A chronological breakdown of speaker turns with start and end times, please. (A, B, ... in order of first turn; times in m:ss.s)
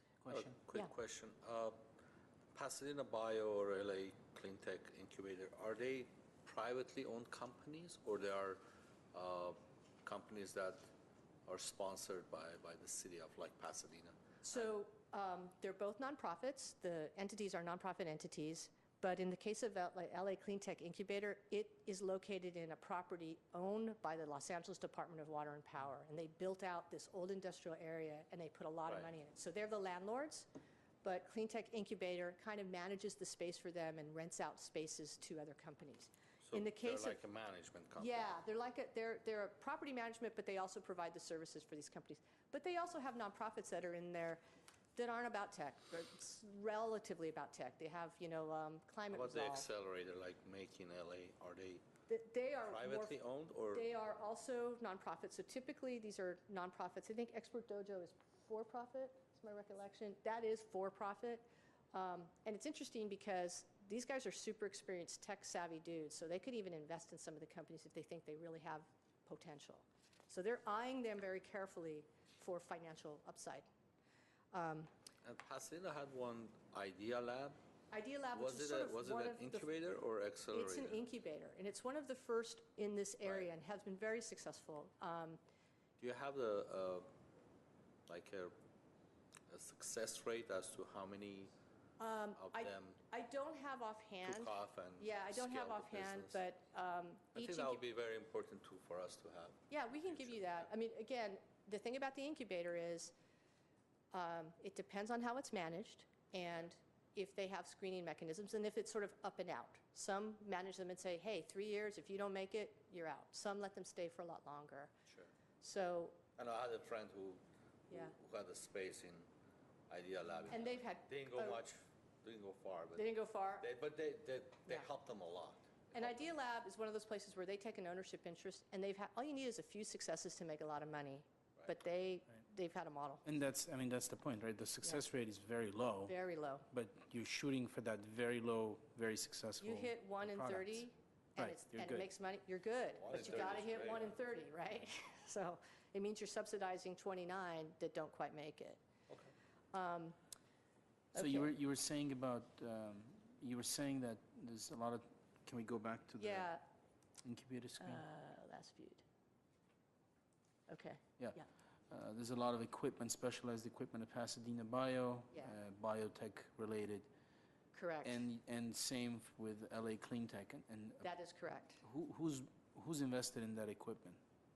0:00.2-0:00.6 A
0:00.3-0:01.8 B
0:02.5-0:08.6 B
0:09.1-0:10.8 B
0:11.5-0:14.7 B
0:14.4-0:30.5 C
0:31.0-0:37.2 C
0:36.4-0:38.4 B
0:38.0-0:44.4 C
0:45.0-0:49.7 C
0:49.1-0:51.8 B
0:52.1-0:53.2 C
0:52.6-0:53.9 B
0:53.7-1:13.7 C
1:14.5-1:14.9 C
1:15.2-1:17.6 B
1:17.9-1:19.7 C
1:18.3-1:21.0 B
1:20.5-1:25.4 C
1:26.0-1:27.1 B
1:28.1-1:28.5 B
1:29.5-1:31.5 B
1:32.0-1:37.8 C
1:32.4-1:33.0 B
1:34.2-1:36.4 B
1:37.4-1:40.6 B
1:39.7-1:43.1 C
1:44.1-1:54.9 C
1:55.6-1:56.2 C
1:56.4-1:59.3 B
1:59.9-2:06.3 B
2:00.5-2:01.6 C
2:03.0-2:03.6 C
2:05.9-2:13.2 C
2:13.2-2:16.2 A
2:16.1-2:16.7 C
2:16.7-2:20.8 A
2:19.6-2:28.8 C
2:21.4-2:22.1 A
2:23.0-2:24.2 B
2:29.7-2:30.2 C
2:31.1-2:31.5 C
2:31.1-2:36.5 A
2:36.2-2:36.6 C
2:37.2-2:38.0 A
2:37.8-2:39.0 C
2:40.7-2:41.5 C
2:41.2-2:47.1 A
2:47.7-2:48.2 C
2:48.0-2:51.1 A
2:51.0-2:51.8 C
2:51.8-2:54.2 A